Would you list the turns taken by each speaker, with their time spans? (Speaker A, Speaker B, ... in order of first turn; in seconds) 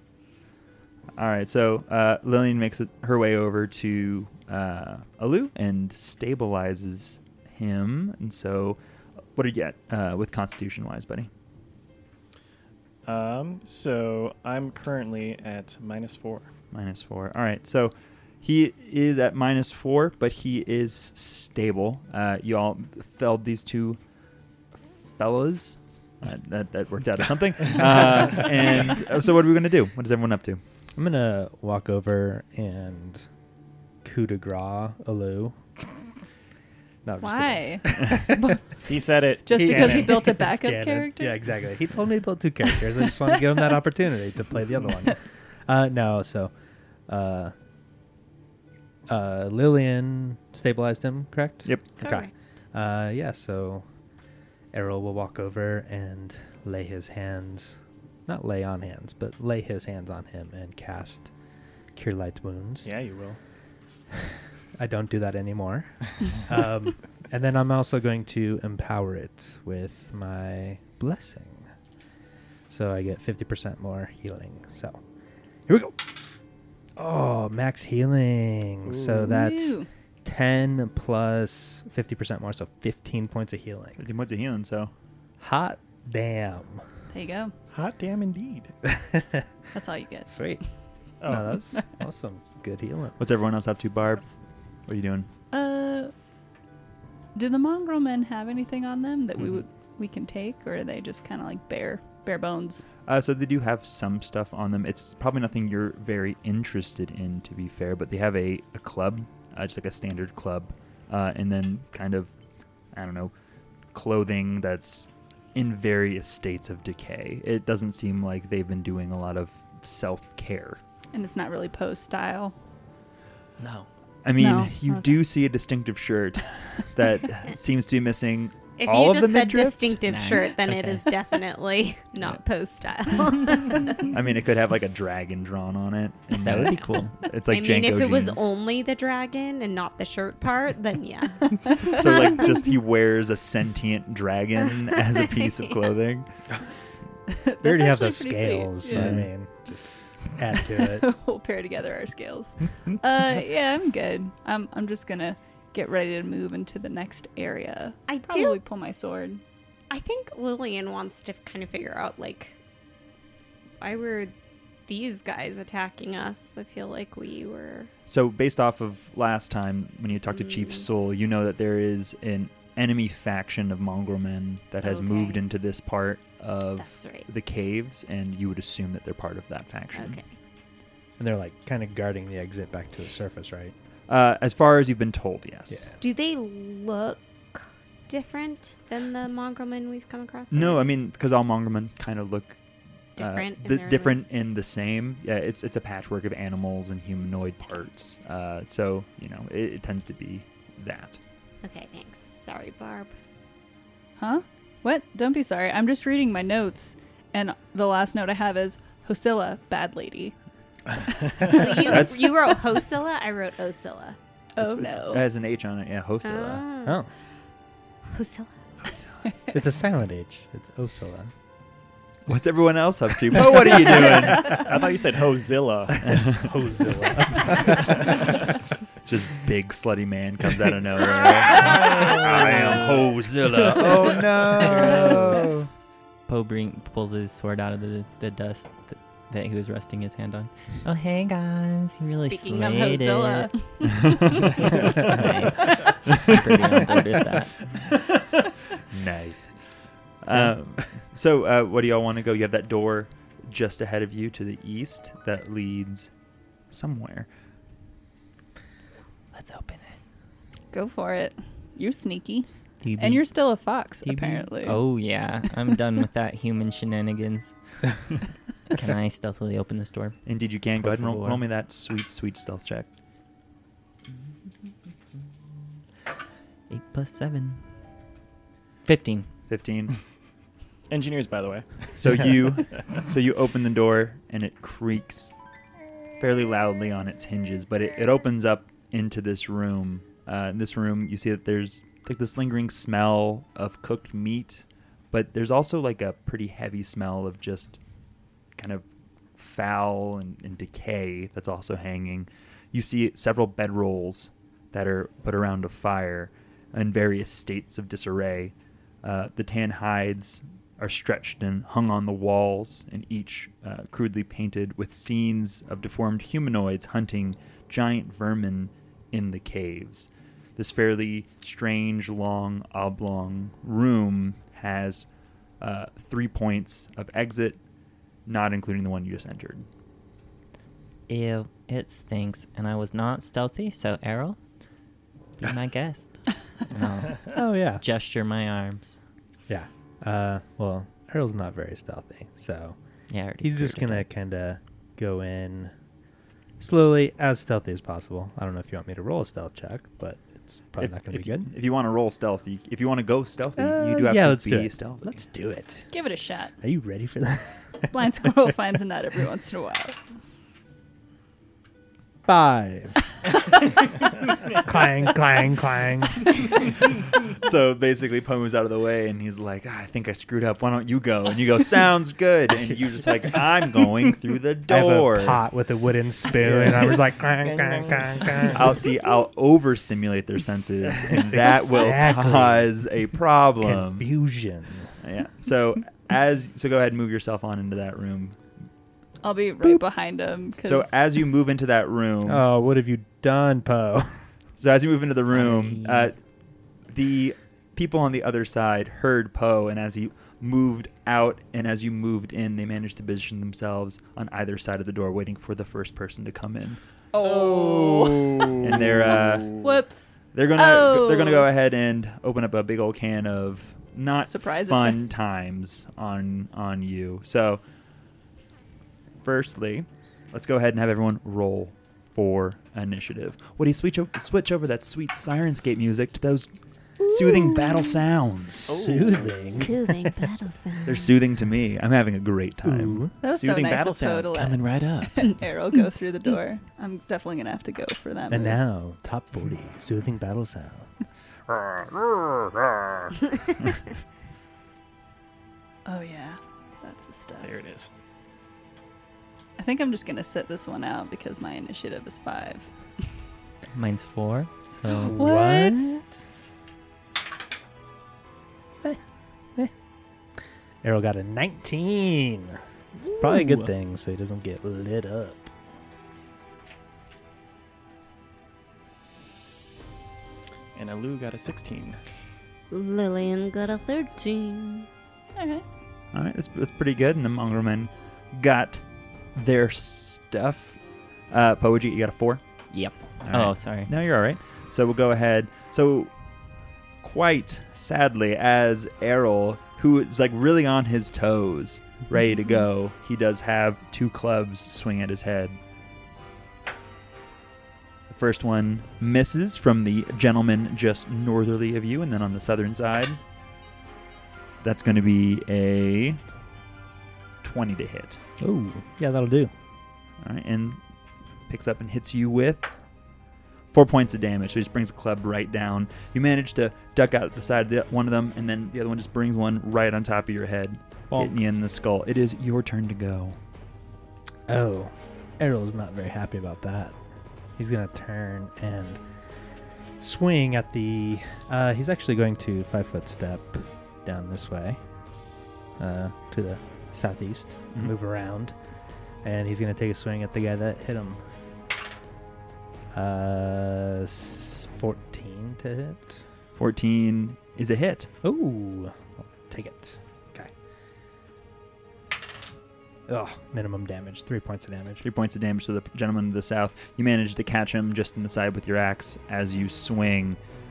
Speaker A: 1.2-8.8, 9.3-11.3, 16.7-24.0, 25.2-30.6, 84.0-84.9, 93.2-94.2, 94.9-95.3, 103.1-112.3, 112.9-113.3, 113.9-120.8, 124.2-130.0, 134.0-138.4, 141.9-146.3, 148.9-149.3, 168.1-180.2, 184.1-185.9, 190.5-192.6, 193.2-201.2, 211.6-212.3, 214.6-216.6, 218.8-219.3, 222.3-224.7, 226.1-226.6, 229.0-235.7, 244.1-244.5, 246.1-246.7, 248.9-249.6, 250.2-256.1, 256.7-257.3, 270.2-272.9, 279.5-280.0, 282.0-285.3, 286.2-297.8, 298.6-298.9, 299.4-325.1, 325.6-327.6, 328.3-329.7, 350.8-355.2, 367.3-375.4, 376.4-377.0, 378.5-384.1, 385.0-388.4, 390.6-392.5, 394.6-396.2, 396.9-406.8, 408.6-409.6, 410.3-417.6, 419.2-426.5, 427.0-428.9, 430.9-433.0, 476.1-482.4, 483.2-486.1, 487.0-495.6, 498.1-503.2, 504.6-506.2, 507.4-508.2, 510.2-510.8, 511.5-512.7, 513.7-523.4, 546.6-548.1, 555.0-560.4
Speaker B: 13.1-16.5, 38.8-40.3, 62.8-63.4, 78.8-79.3, 87.7-88.7, 91.2-91.6, 224.0-226.2, 227.7-228.3, 280.9-282.2, 376.7-378.6, 407.2-409.7, 428.7-429.7, 433.3-435.4, 447.4-447.9, 470.8-472.0
Speaker C: 31.0-33.3, 34.0-35.6, 37.0-38.5, 39.5-46.5, 47.1-47.5, 49.1-53.9, 54.7-61.3, 62.0-62.9, 64.2-71.7, 72.7-75.0, 75.7-76.1, 77.0-84.0, 85.4-86.8, 88.9-89.5, 90.3-90.6, 91.2-93.2, 147.6-151.1, 181.2-183.7, 219.5-221.3, 226.1-228.4, 337.3-337.8, 339.5-342.8, 343.4-345.7, 346.6-351.5, 353.6-355.9, 356.6-358.0, 362.3-363.1, 364.4-366.5, 374.7-378.8, 380.9-382.7, 383.6-384.9, 392.3-394.2, 428.7-430.3, 432.6-433.2, 438.3-440.9, 455.0-456.2, 460.8-465.5, 508.4-509.5, 524.5-527.0, 527.6-529.0, 530.0-534.8, 535.8-538.5, 539.2-541.2, 542.9-546.2, 548.2-550.5, 553.1-555.0
Speaker D: 37.2-38.7, 39.5-41.4, 43.0-43.7, 79.3-79.9, 87.1-87.5, 89.7-90.5, 95.5-96.1, 97.3-102.8, 121.1-122.5, 124.4-125.3, 147.3-149.2, 150.7-159.4, 204.2-210.3, 211.1-212.0, 214.6-215.2, 260.7-264.8, 355.9-356.5, 357.9-360.0, 389.2-391.0, 407.1-411.5, 414.2-415.1, 433.2-438.6, 445.9-447.5, 449.6-452.7, 455.1-456.0, 475.4-475.6
Speaker E: 52.0-52.3, 128.8-134.1, 137.5-142.4, 145.2-145.8, 158.1-158.6, 159.9-162.6, 163.8-164.3, 164.9-167.9, 170.3-170.9, 174.8-175.4, 176.8-177.3, 179.9-180.3, 186.0-190.9, 193.2-194.2, 201.6-203.1, 211.4-214.2, 216.2-217.0, 218.1-218.5, 242.1-246.3, 427.0-428.0, 429.2-431.1, 472.7-474.9
Speaker F: 123.6-123.9, 130.1-131.1, 136.4-137.2, 236.3-243.5, 244.7-247.5, 259.3-260.0, 262.8-267.5, 268.7-270.2, 270.8-271.4, 276.7-277.7, 278.9-279.3, 331.1-334.4, 335.4-339.0, 343.1-344.1, 395.2-396.1, 453.7-455.2, 463.1-463.7, 482.7-483.9